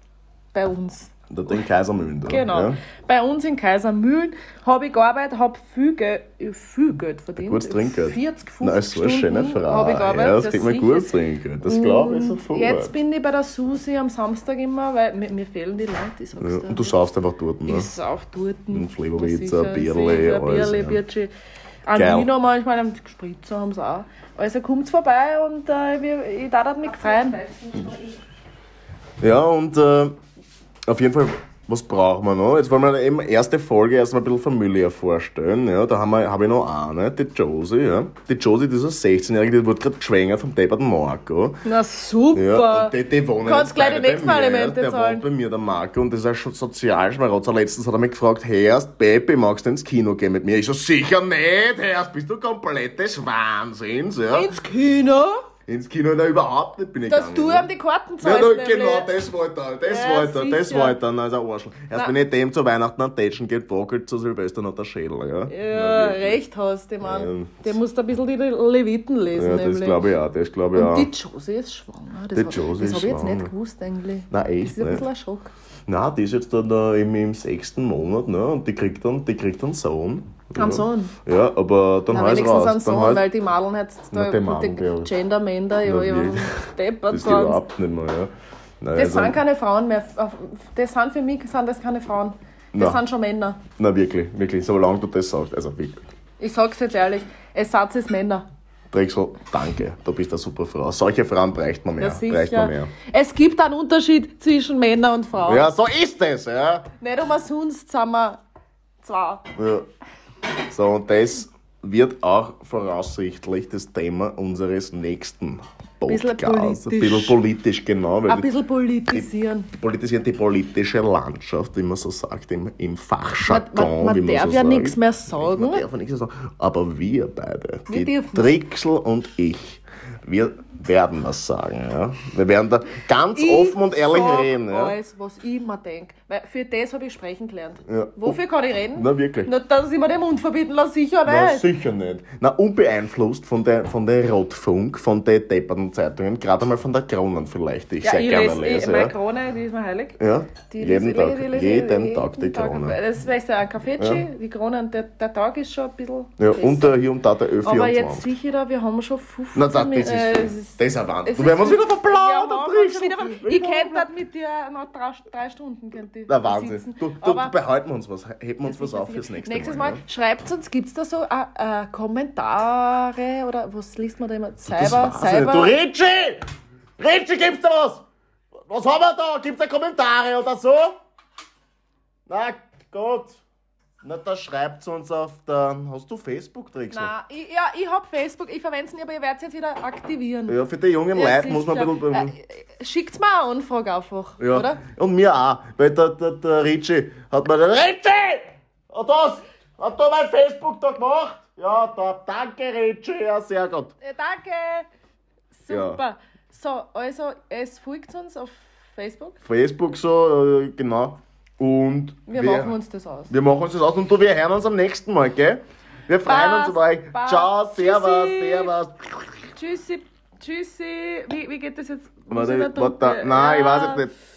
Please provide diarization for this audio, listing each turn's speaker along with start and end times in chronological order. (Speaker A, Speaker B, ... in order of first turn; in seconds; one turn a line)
Speaker A: 0.5-1.6
Speaker B: 1.3-2.8
Speaker A: 2.3-11.1
Speaker B: 7.4-12.9
Speaker A: 11.6-17.0
Speaker B: 16.4-17.9
Speaker A: 17.7-21.3
Speaker B: 18.7-21.0
Speaker A: 21.9-28.1
Speaker B: 21.9-22.3
Speaker B: 29.2-30.1
Speaker B: 30.9-41.6
Speaker A: 41.6-45.2
Speaker B: 42.3-54.5
Speaker A: 54.3-55.4
Speaker B: 55.7-57.7
Speaker A: 57.1-59.1
Speaker B: 58.2-66.4
Speaker A: 59.8-61.0
Speaker A: 65.5-70.0
Speaker B: 67.0-67.8
Speaker B: 69.3-71.1
Speaker A: 70.7-75.5
Speaker B: 72.3-73.5
Speaker B: 74.3-75.0
Speaker B: 75.9-83.2
Speaker A: 80.6-81.1
Speaker A: 82.1-87.6
Speaker B: 84.1-85.1
Speaker B: 85.8-89.4
Speaker A: 89.0-93.6
Speaker B: 92.7-93.0
Speaker B: 93.8-96.0
Speaker A: 96.4-98.4
Speaker B: 98.9-102.9
Speaker A: 102.0-105.7
Speaker B: 105.4-106.9
Speaker A: 107.0-108.4
Speaker A: 109.0-109.4
Speaker B: 109.5-109.9
Speaker B: 110.7-118.5
Speaker A: 116.1-117.4
Speaker A: 118.3-119.7
Speaker B: 119.1-134.9
Speaker A: 123.5-125.8
Speaker A: 127.9-128.6
Speaker A: 133.3-141.7
Speaker B: 137.9-138.4
Speaker B: 138.9-139.5
Speaker B: 141.2-149.1
Speaker A: 148.0-150.2
Speaker B: 150.2-153.0
Speaker A: 150.7-157.0
Speaker B: 154.0-154.2
Speaker B: 156.4-158.3
Speaker A: 157.6-167.5
Speaker B: 159.5-164.1
Speaker B: 166.3-170.0
Speaker A: 168.6-175.7
Speaker B: 174.7-176.4
Speaker B: 177.0-178.0
Speaker B: 178.7-180.9
Speaker B: 182.3-183.4
Speaker B: 184.0-187.1
Speaker A: 186.9-190.6
Speaker B: 190.5-192.3
Speaker A: 191.1-194.8
Speaker B: 194.4-203.9
Speaker A: 204.0-204.9
Speaker A: 205.5-209.4
Speaker B: 205.7-206.0
Speaker B: 209.4-212.7
Speaker A: 212.3-213.3
Speaker B: 213.3-219.4
Speaker A: 216.2-218.7
Speaker A: 219.5-224.0
Speaker B: 222.3-224.1